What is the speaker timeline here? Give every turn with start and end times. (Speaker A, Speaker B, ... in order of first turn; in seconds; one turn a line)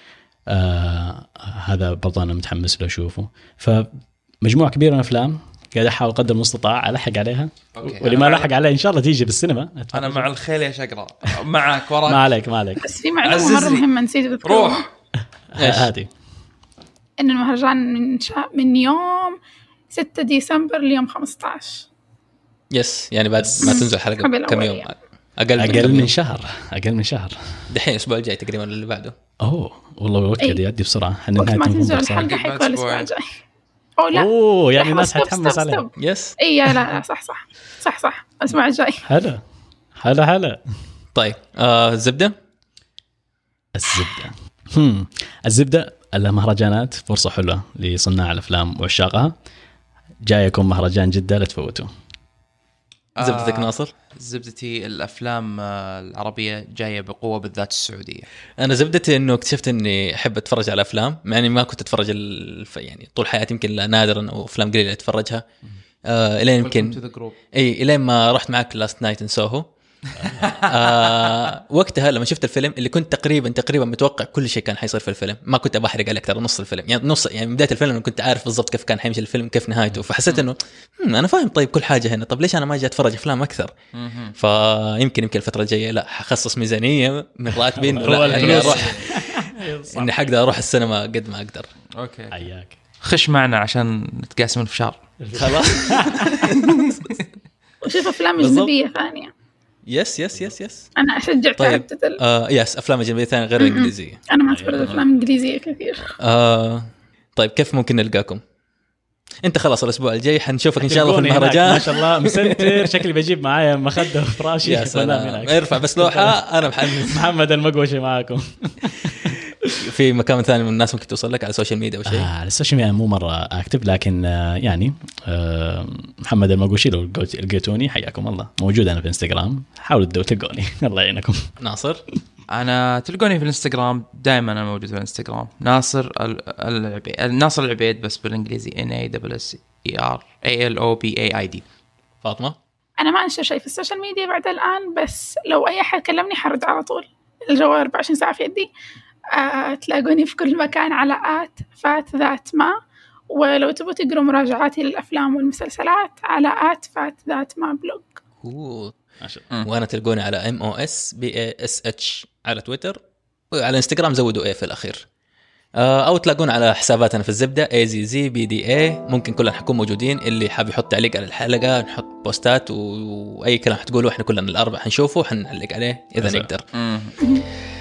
Speaker A: 0.5-3.9
Speaker A: 4.4-10.3
Speaker B: 7.8-8.5
Speaker B: 9.9-12.3
Speaker A: 12.1-12.8
Speaker C: 12.8-14.9
Speaker B: 13.2-13.8
Speaker B: 14.4-14.9
Speaker A: 15.5-16.1
Speaker D: 15.6-15.9
Speaker C: 17.2-19.4
Speaker C: 19.9-21.9
Speaker D: 22.7-26.1
Speaker A: 23.4-23.8
Speaker C: 23.6-24.9
Speaker A: 25.6-27.7
Speaker D: 27.7-29.1
Speaker A: 29.4-32.3
Speaker C: 31.4-33.3
Speaker B: 32.2-33.1
Speaker C: 34.0-39.0
Speaker A: 34.1-35.9
Speaker D: 36.0-36.4
Speaker A: 39.0-39.4
Speaker A: 40.0-40.6
Speaker D: 41.1-42.3
Speaker A: 43.8-49.3
Speaker A: 50.2-51.9
Speaker B: 53.2-58.3
Speaker D: 53.2-53.9
Speaker D: 58.6-65.4
Speaker D: 66.1-67.0
Speaker B: 66.6-67.3
Speaker D: 67.5-69.7
Speaker B: 70.2-71.3
Speaker D: 70.5-83.7
Speaker B: 84.0-84.3
Speaker D: 84.4-89.2
Speaker A: 87.8-90.2
Speaker B: 88.0-89.2
Speaker D: 89.9-91.7
Speaker B: 92.0-92.4
Speaker A: 92.3-92.7
Speaker B: 93.0-95.0
Speaker A: 95.2-96.5
Speaker D: 95.4-96.8
Speaker B: 96.6-96.9
Speaker C: 97.8-99.3
Speaker D: 98.4-98.7
Speaker D: 99.9-100.9
Speaker C: 101.0-102.2
Speaker D: 101.6-104.2
Speaker C: 103.6-106.2
Speaker A: 104.5-105.1
Speaker D: 106.2-108.4
Speaker D: 109.4-113.0
Speaker A: 110.8-119.4
Speaker D: 114.6-117.2
Speaker D: 119.8-122.3
Speaker A: 122.1-131.5
Speaker D: 131.6-132.0
Speaker B: 132.5-141.6
Speaker D: 142.2-142.6
Speaker C: 143.0-148.7
Speaker C: 149.3-152.8
Speaker C: 153.3-158.2
Speaker D: 158.4-159.0
Speaker D: 159.6-163.0
Speaker D: 163.5-165.0
Speaker D: 165.8-176.7
Speaker A: 176.2-176.5
Speaker B: 176.8-177.2